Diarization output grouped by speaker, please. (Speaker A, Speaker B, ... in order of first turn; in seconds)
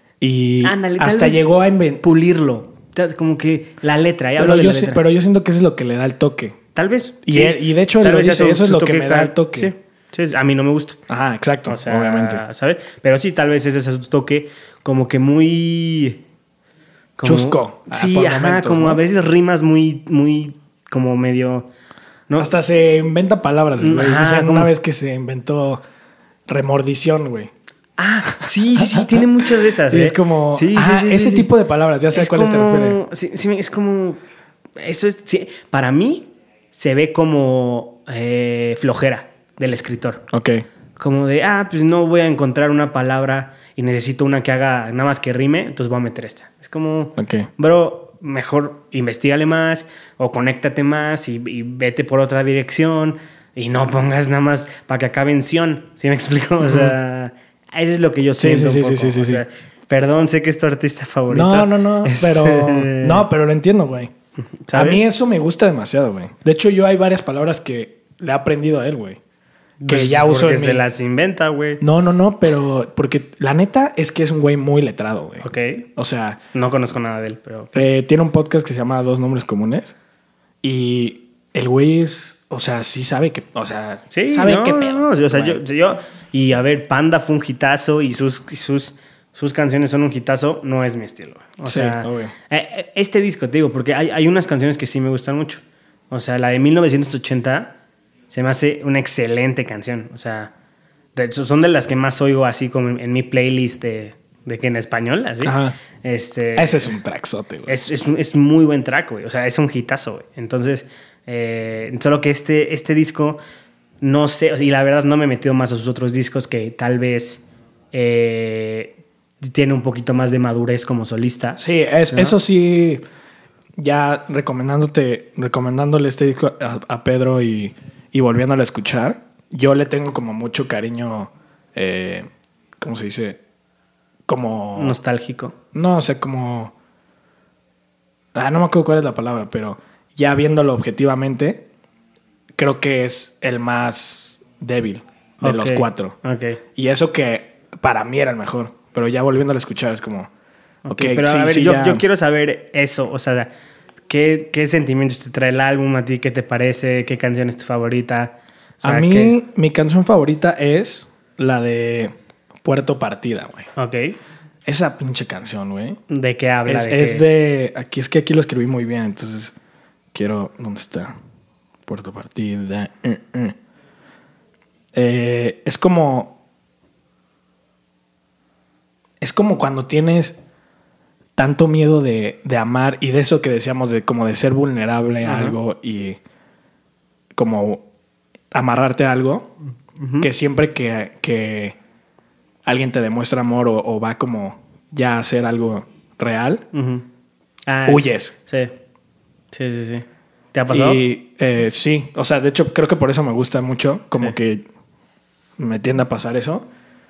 Speaker A: 0.2-2.0, 4.4-6.6, 7.2-9.7, 11.1-12.4, 17.2-19.0, 22.4-25.8, 26.5-27.5, 28.3-33.0, 40.3-40.6, 47.2-47.5, 56.6-57.0, 58.4-59.4, 61.3-64.1, 64.7-69.2, 69.9-70.8, 71.8-76.4, 77.8-79.9, 80.6-85.6, 91.7-92.3, 105.4-105.8, 106.6-107.8, 121.6-123.0, 123.8-132.3, 132.8-133.4, 134.3-135.0, 135.7-136.7, 138.3-141.7, 142.6-146.2, 146.8-150.3, 150.9-152.0, 158.8-162.1, 162.6-163.7, 164.7-166.0, 166.7-169.5, 170.1-171.2, 171.9-173.6, 174.9-176.4, 179.2-180.4, 181.4-186.2, 187.3-187.8, 188.5-189.5, 190.2-191.8, 192.7-196.7, 197.9-198.3, 200.7-204.7, 205.6-206.7
Speaker B: 0.6-1.5, 2.0-5.0, 6.8-11.0, 11.7-16.2, 17.2-21.7, 23.8-24.7, 28.0-31.5, 32.1-34.2, 34.8-40.2, 41.0-63.3, 64.7-65.0, 69.8-71.8, 75.4-75.8, 76.5-77.8, 84.1-97.8, 98.3-100.5, 101.2-107.0, 107.7-113.4, 114.0-121.6, 134.8-135.6, 145.4-146.6, 150.8-153.5, 154.1-159.4, 163.8-164.2, 166.1-167.2, 185.2-185.6, 190.0-190.3, 196.7-197.1, 197.7-198.7, 199.5-201.0